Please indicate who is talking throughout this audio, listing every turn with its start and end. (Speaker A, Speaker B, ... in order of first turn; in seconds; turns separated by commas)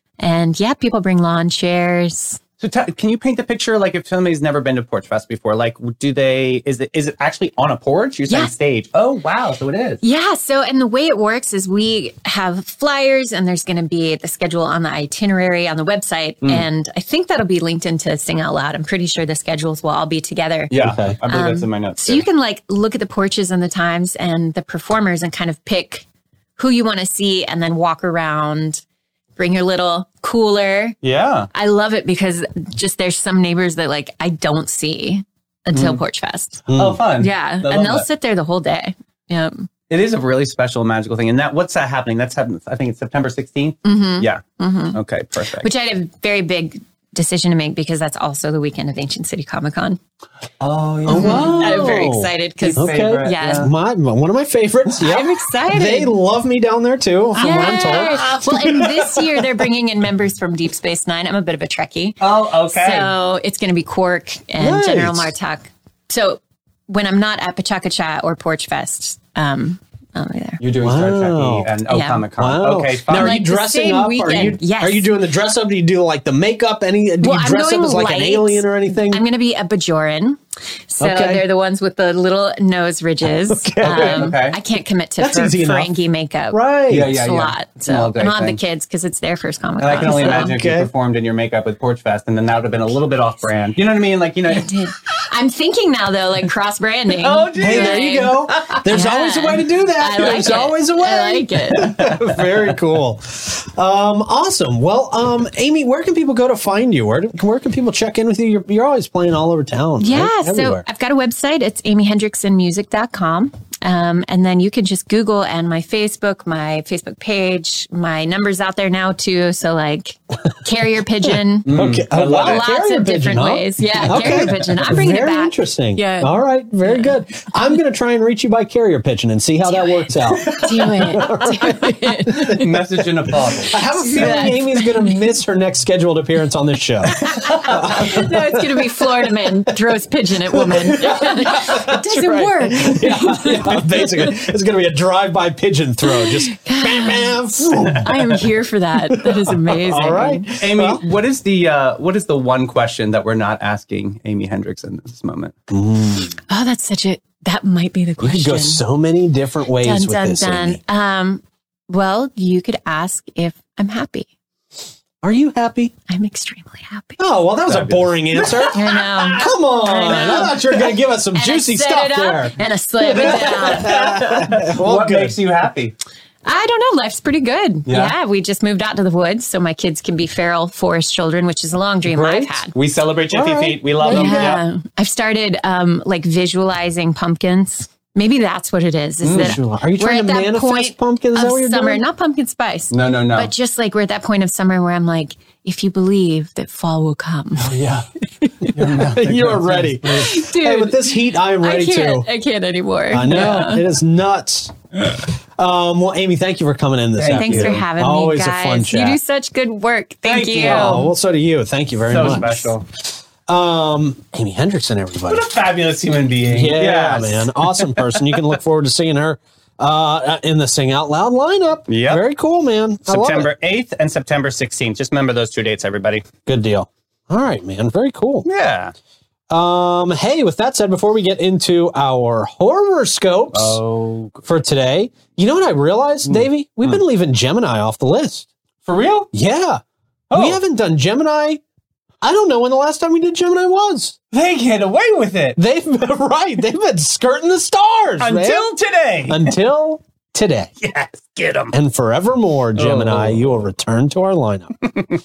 Speaker A: 0.2-2.4, Speaker B: 2.6-10.0, Speaker A: 10.0-20.7, Speaker B: 20.7-22.2, Speaker C: 20.8-21.2, Speaker A: 21.2-26.0, Speaker A: 26.6-28.8, Speaker A: 29.4-31.0, Speaker B: 31.0-31.5, Speaker A: 31.5-36.6, Speaker B: 35.7-36.0, Speaker C: 36.7-37.0, Speaker B: 36.7-38.0, Speaker A: 37.2-39.7, Speaker B: 39.9-44.4, Speaker A: 43.8-45.0, Speaker B: 44.9-45.7, Speaker A: 45.6-50.0, Speaker B: 50.6-52.0, Speaker C: 51.0-59.5, Speaker A: 51.1-53.7, Speaker B: 52.6-53.7, Speaker A: 55.0-56.1, Speaker A: 57.4-70.6, Speaker B: 57.4-58.4, Speaker B: 62.2-63.1, Speaker C: 64.6-65.3, Speaker B: 70.6-73.4, Speaker C: 70.8-71.8, Speaker A: 71.9-72.3, Speaker C: 72.4-79.2, Speaker A: 73.1-75.1, Speaker A: 77.2-90.5, Speaker C: 81.0-81.4, Speaker C: 83.2-84.3, Speaker B: 83.8-84.6, Speaker C: 85.2-85.9, Speaker C: 86.5-87.2, Speaker B: 86.9-88.6, Speaker B: 89.8-94.7, Speaker C: 90.0-90.9, Speaker A: 94.5-102.0, Speaker B: 97.1-98.8, Speaker C: 97.5-110.8, Speaker B: 101.8-102.4, Speaker A: 110.0-121.7, Speaker B: 121.7-122.7, Speaker C: 121.7-132.7, Speaker A: 122.2-127.1, Speaker A: 129.6-132.7, Speaker B: 132.5-134.2, Speaker C: 133.3-139.7, Speaker A: 133.9-135.2, Speaker A: 137.2-144.4, Speaker C: 140.5-148.5, Speaker A: 146.1-150.5, Speaker C: 149.1-151.0, Speaker B: 150.6-155.5, Speaker C: 155.7-156.4, Speaker A: 156.5-158.8, Speaker C: 158.2-160.8, Speaker A: 159.8-164.3, Speaker C: 165.2-165.9, Speaker A: 166.1-167.2, Speaker C: 167.2-175.4, Speaker B: 167.7-169.3, Speaker A: 168.7-174.0, Speaker B: 173.3-175.9, Speaker A: 176.4-182.7, Speaker B: 177.9-178.1, Speaker C: 182.0-182.6, Speaker B: 182.7-184.6, Speaker C: 183.3-184.6, Speaker A: 184.0-197.7, Speaker B: 189.2-189.6, Speaker C: 189.3-192.0, Speaker B: 192.9-193.5, Speaker B: 197.6-198.1, Speaker B: 198.7-200.3, Speaker C: 198.7-202.3, Speaker A: 200.0-203.8, Speaker C: 203.1-209.2, Speaker B: 203.3-203.6, Speaker B: 207.2-207.8, Speaker A: 207.3-211.1, Speaker B: 210.2-211.1, Speaker C: 210.6-215.5, Speaker B: 212.1-212.8, Speaker B: 215.3-218.3, Speaker C: 216.5-223.5, Speaker B: 221.9-222.2, Speaker B: 223.1-226.3, Speaker C: 226.4-228.5, Speaker B: 228.4-228.9, Speaker C: 229.5-233.8, Speaker B: 233.5-234.4, Speaker C: 234.4-238.5, Speaker B: 236.2-237.0, Speaker B: 238.8-239.3, Speaker C: 239.3-239.8, Speaker B: 240.3-240.6, Speaker C: 240.3-241.6, Speaker C: 242.2-244.2, Speaker B: 244.3-245.6, Speaker C: 245.6-248.7, Speaker B: 248.2-249.6, Speaker C: 249.3-250.7, Speaker B: 250.8-251.7, Speaker C: 251.7-254.9, Speaker B: 252.7-253.5